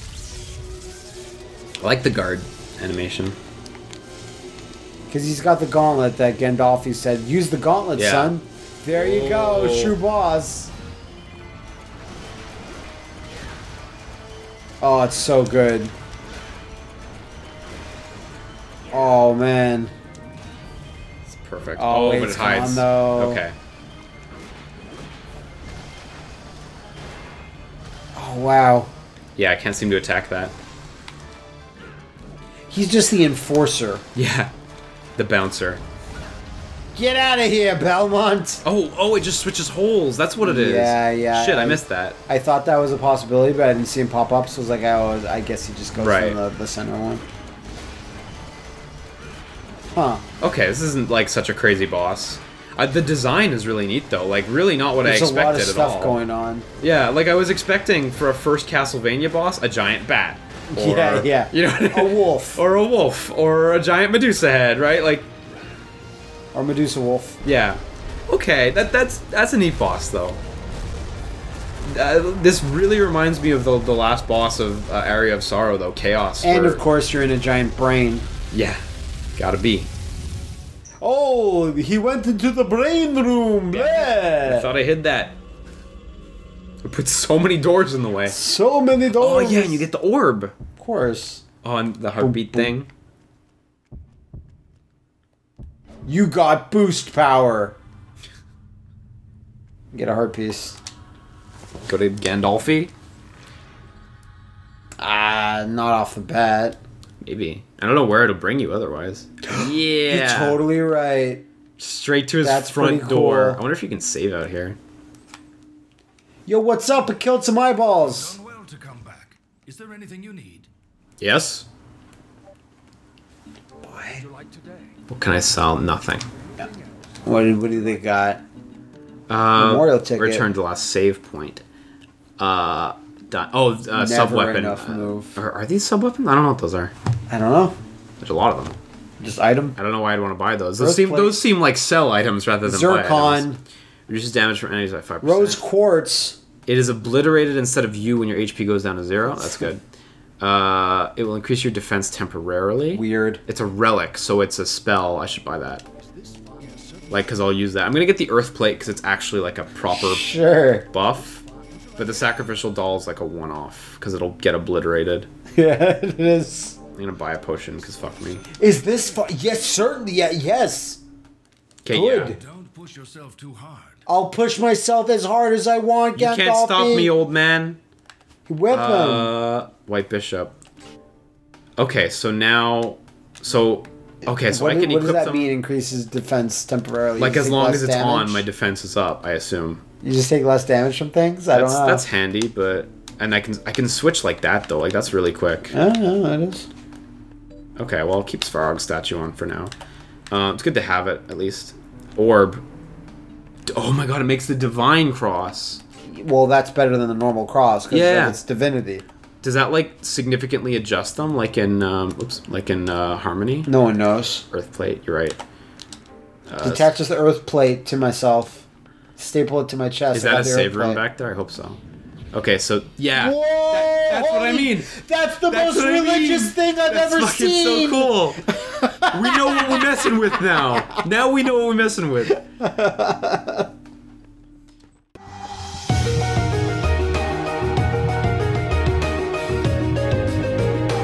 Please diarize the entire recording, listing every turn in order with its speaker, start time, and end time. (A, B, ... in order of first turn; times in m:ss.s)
0:01.8-0:03.4 A
0:05.1-0:10.7 B
0:08.0-0:08.3 A
0:08.9-0:10.0 A
0:14.8-0:15.9 B
0:18.9-0:19.9 B
0:21.3-0:23.6 A
0:21.8-0:23.4 B
0:28.1-0:28.9 B
0:29.4-0:30.5 A
0:32.7-0:34.0 B
0:34.1-0:34.5 A
0:35.2-0:35.8 A
0:36.9-0:38.6 B
0:38.6-0:42.2 A
0:40.4-0:47.2 B
0:46.0-0:46.4 A
0:49.9-0:50.2 B
0:50.4-0:56.2 A
0:55.0-0:56.7 B
0:56.8-1:05.3 A
1:00.7-1:02.6 B
1:06.5-1:07.4 B
1:07.4-1:10.4 A
1:11.8-1:16.8 A
1:16.4-1:18.3 B
1:18.5-1:18.8 A
1:19.4-1:19.9 A
1:21.0-1:24.7 B
1:23.7-1:25.4 A
1:26.8-1:28.4 A
1:28.3-1:29.8 B
1:29.1-1:30.6 A
1:30.8-1:31.4 B
1:31.6-1:32.9 A
1:32.2-1:32.7 B
1:36.1-1:37.8 B
1:39.9-1:40.8 B
1:41.9-1:42.9 A
1:45.0-1:46.8 B
1:47.2-1:50.6 A
1:49.4-1:51.4 B
1:51.8-1:54.8 A
1:52.4-1:53.6 B
1:56.5-1:58.4 B
1:58.0-2:00.7 C
2:01.2-2:01.7 A
2:03.8-2:04.2 B
2:04.2-2:05.0 C
2:05.1-2:06.2 A
2:06.3-2:07.0 C
2:07.2-2:08.4 B
2:09.3-2:11.6 A
2:09.6-2:10.4 B
2:12.4-2:16.9 A
2:13.9-2:15.4 B
2:17.3-2:17.8 B
2:18.2-2:18.8 A
2:19.2-2:19.8 B
2:19.8-2:23.5 A
2:20.8-2:21.4 B
2:22.6-2:23.6 B
2:24.1-2:25.6 A
2:25.2-2:26.4 B
2:26.6-2:29.8 A
2:29.4-2:29.7 B
2:30.4-2:35.8 A
2:32.9-2:33.4 B
2:36.0-2:37.4 C
2:37.1-2:40.3 A
2:39.9-2:40.9 B
2:40.9-2:41.4 A
2:41.6-2:42.6 C
2:42.0-2:45.3 A
2:45.5-2:46.8 B
2:47.0-2:48.4 A
2:48.6-2:51.0 B
2:51.8-2:52.4 A
2:51.9-2:52.4 B
2:52.2-2:54.0 C
2:54.1-2:57.1 B
2:56.1-2:57.8 A
2:58.5-2:59.3 B
2:58.7-3:00.6 A
3:01.8-3:05.4 A
3:04.2-3:08.4 B
3:07.2-3:09.8 A
3:10.0-3:12.0 B
3:11.5-3:15.7 A
3:15.7-3:16.7 B
3:17.8-3:19.7 A
3:20.3-3:22.6 A
3:23.7-3:25.8 A
3:26.1-3:29.0 B
3:27.9-3:28.4 A
3:29.4-3:33.7 A
3:33.6-3:34.4 B
3:34.5-3:35.4 A
3:36.5-3:36.9 A
3:36.6-3:38.6 B
3:39.2-3:41.0 B
3:40.1-3:41.8 A
3:42.3-3:44.9 A
3:43.1-3:50.0 B
3:45.5-3:48.5 A
3:49.0-3:52.4 A
3:52.6-3:53.7 B